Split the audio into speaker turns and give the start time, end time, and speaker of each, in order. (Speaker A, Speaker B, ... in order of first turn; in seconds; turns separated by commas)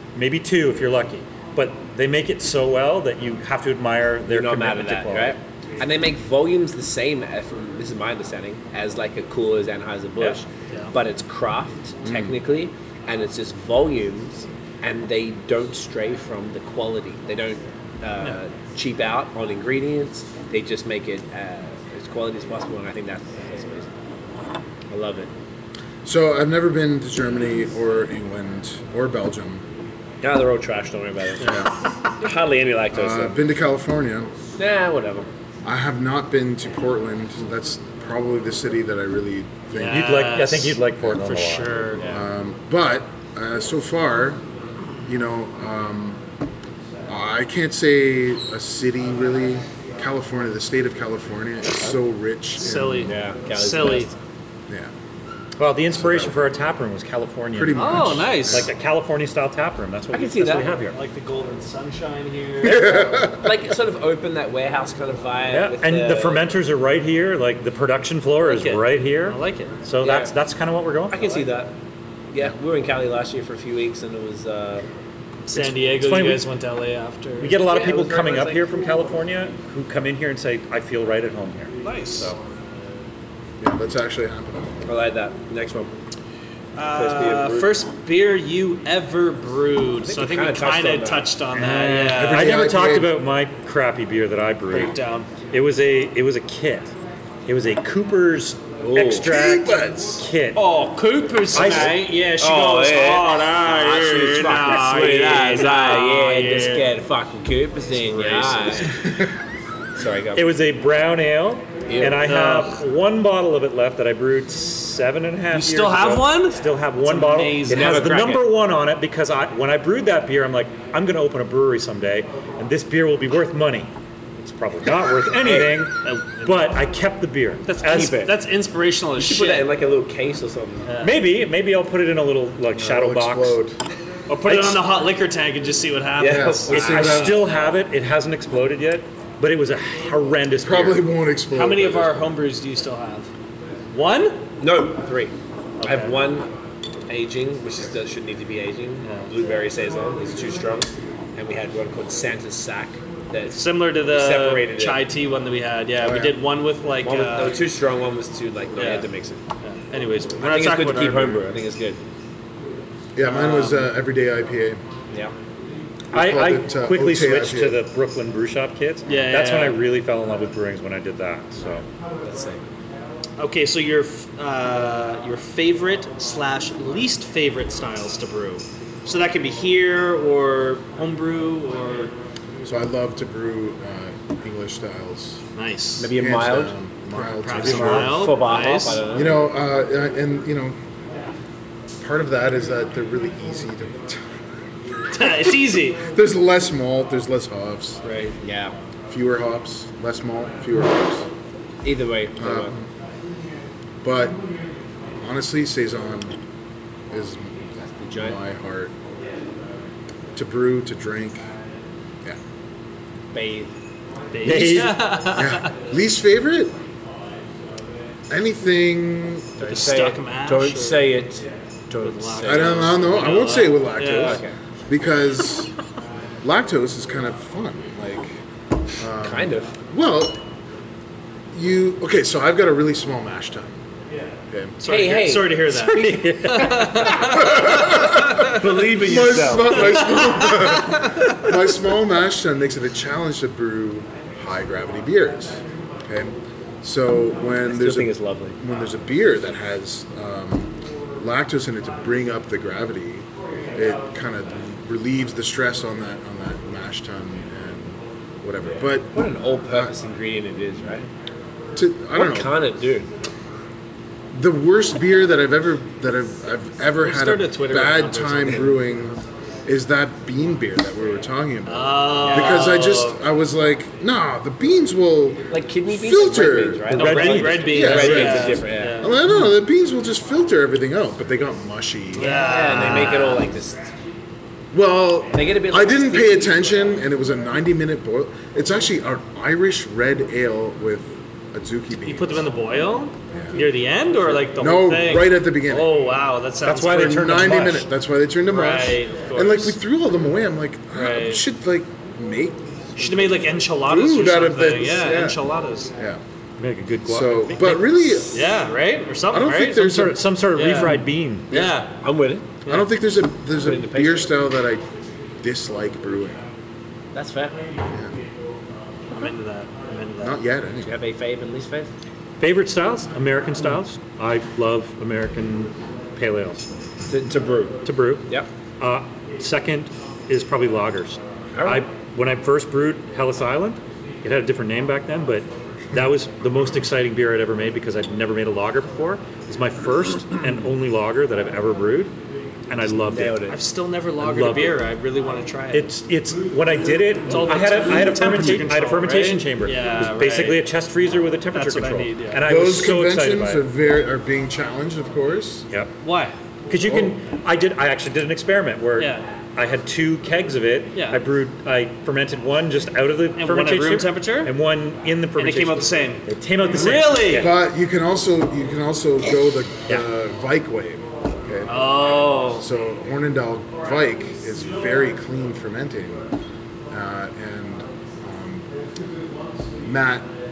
Speaker A: 0.1-5.4, Speaker B: 4.3-23.9, Speaker C: 12.0-12.4, Speaker B: 24.9-25.3, Speaker C: 26.1-29.6, Speaker B: 30.2-33.4, Speaker D: 31.4-31.7, Speaker C: 31.4-31.7, Speaker C: 32.9-34.3, Speaker B: 34.6-35.3, Speaker C: 35.6-40.1, Speaker D: 39.7-42.2, Speaker A: 39.9-41.9, Speaker C: 42.0-44.4, Speaker C: 45.0-46.2, Speaker C: 47.1-53.1, Speaker D: 52.6-54.1, Speaker B: 53.0-54.2, Speaker A: 55.6-61.0, Speaker C: 55.9-56.5, Speaker C: 57.5-58.7, Speaker D: 57.7-58.7, Speaker B: 60.1-60.7, Speaker D: 60.8-63.0, Speaker C: 62.6-63.5, Speaker B: 62.6-66.5, Speaker A: 65.5-71.3, Speaker D: 68.4-69.7, Speaker B: 70.0-70.3, Speaker B: 71.1-71.8, Speaker B: 72.3-74.9, Speaker D: 75.5-77.6, Speaker A: 75.5-76.5, Speaker A: 77.4-82.4, Speaker B: 77.6-78.7, Speaker D: 81.8-82.3, Speaker C: 83.6-84.8, Speaker B: 84.8-85.9, Speaker D: 86.8-92.6, Speaker B: 86.9-87.8, Speaker B: 90.0-91.3, Speaker A: 91.5-96.9, Speaker C: 92.2-93.2, Speaker D: 94.7-95.3, Speaker A: 97.5-100.6, Speaker B: 98.8-99.3, Speaker C: 99.2-100.3, Speaker D: 100.6-106.9, Speaker B: 101.4-109.2, Speaker A: 101.5-102.0, Speaker D: 107.9-108.8, Speaker B: 110.0-110.5, Speaker A: 110.3-128.2, Speaker B: 111.9-112.2, Speaker D: 112.2-112.8, Speaker D: 115.5-118.3, Speaker B: 117.7-118.5, Speaker B: 125.3-125.9, Speaker D: 126.0-126.7, Speaker D: 127.7-129.7, Speaker B: 127.8-128.4, Speaker B: 129.2-130.9, Speaker D: 130.9-131.2, Speaker A: 131.0-133.6, Speaker C: 132.8-133.8, Speaker D: 134.3-137.5, Speaker A: 134.4-134.9, Speaker B: 136.2-137.1, Speaker C: 136.2-137.5, Speaker A: 136.7-141.1, Speaker C: 140.6-142.3, Speaker D: 141.5-143.3, Speaker D: 143.9-144.4, Speaker B: 144.6-146.5, Speaker D: 145.8-146.2, Speaker B: 147.1-155.1, Speaker D: 149.0-149.3, Speaker D: 153.5-157.6, Speaker C: 156.0-156.4, Speaker B: 157.0-159.4, Speaker D: 158.8-159.1, Speaker D: 159.6-161.4, Speaker B: 160.4-162.0, Speaker C: 163.2-164.8, Speaker D: 163.2-163.9, Speaker C: 166.1-167.8, Speaker A: 166.1-171.9, Speaker D: 169.1-169.8, Speaker B: 172.2-172.6, Speaker D: 173.4-182.1, Speaker C: 182.7-185.4, Speaker D: 185.6-186.2, Speaker B: 186.0-186.8, Speaker C: 186.2-188.3, Speaker D: 187.2-189.1, Speaker A: 187.5-188.1, Speaker B: 187.9-189.5, Speaker C: 189.1-190.8, Speaker C: 192.0-198.0, Speaker D: 195.1-196.1, Speaker D: 198.0-198.3, Speaker B: 198.4-198.7, Speaker C: 199.1-201.3, Speaker B: 201.8-202.8, Speaker C: 202.4-202.9, Speaker C: 204.0-204.4, Speaker C: 205.2-206.4, Speaker C: 207.1-208.9, Speaker B: 207.8-208.4, Speaker C: 210.3-211.5, Speaker B: 213.3-213.7, Speaker D: 214.3-215.7, Speaker A: 214.4-215.2, Speaker C: 215.3-216.8, Speaker C: 218.3-219.6, Speaker B: 219.6-223.2, Speaker D: 219.6-221.1, Speaker D: 222.0-224.4, Speaker C: 222.4-225.7, Speaker B: 224.1-224.6, Speaker C: 226.4-228.4, Speaker C: 229.0-230.4, Speaker B: 229.2-229.7, Speaker C: 231.5-233.8, Speaker C: 234.5-234.8, Speaker D: 234.8-238.7, Speaker B: 234.8-236.1, Speaker A: 235.8-237.1, Speaker B: 236.7-237.7, Speaker C: 237.3-259.1, Speaker B: 238.3-240.2, Speaker D: 239.7-241.4, Speaker B: 247.7-248.6, Speaker B: 259.1-261.1, Speaker C: 259.7-259.9, Speaker C: 261.8-262.6, Speaker B: 262.1-263.1, Speaker C: 264.3-277.0, Speaker D: 267.0-268.8, Speaker D: 271.7-273.2, Speaker B: 275.5-279.1, Speaker A: 276.9-278.4, Speaker D: 276.9-279.2, Speaker C: 277.6-282.3, Speaker D: 282.1-283.5, Speaker B: 282.2-283.9, Speaker C: 284.7-292.5, Speaker B: 285.3-286.7, Speaker D: 292.0-297.2, Speaker C: 293.3-293.6, Speaker C: 294.6-295.9, Speaker A: 296.6-297.9, Speaker C: 296.9-305.4, Speaker D: 298.5-299.8, Speaker D: 300.9-301.4, Speaker D: 303.0-305.9, Speaker C: 306.0-306.2, Speaker A: 306.6-307.9, Speaker C: 307.1-308.6, Speaker D: 308.3-310.0, Speaker C: 309.3-310.2, Speaker A: 309.7-311.5, Speaker D: 310.6-311.9, Speaker B: 311.5-312.5, Speaker C: 312.7-314.9, Speaker B: 313.6-314.3, Speaker C: 315.4-316.4, Speaker B: 317.1-317.6, Speaker C: 317.9-318.1, Speaker D: 319.1-320.4, Speaker C: 320.2-320.9, Speaker B: 320.8-321.9, Speaker A: 322.4-326.7, Speaker B: 327.1-328.5, Speaker A: 327.8-328.3, Speaker A: 328.8-342.1, Speaker B: 331.6-331.9, Speaker A: 342.7-343.4, Speaker B: 342.8-343.6, Speaker D: 343.5-345.9, Speaker A: 344.2-344.8, Speaker A: 345.7-353.6, Speaker D: 347.3-350.6, Speaker C: 347.9-348.6, Speaker D: 351.5-352.4, Speaker C: 352.4-355.7, Speaker A: 355.7-356.0, Speaker D: 356.0-356.4, Speaker A: 356.7-367.5, Speaker C: 356.9-357.1, Speaker D: 359.0-359.3, Speaker D: 360.9-361.2, Speaker D: 363.4-364.5, Speaker D: 365.4-367.5, Speaker C: 367.3-376.3, Speaker D: 371.7-372.7, Speaker C: 376.9-378.7, Speaker C: 379.8-380.3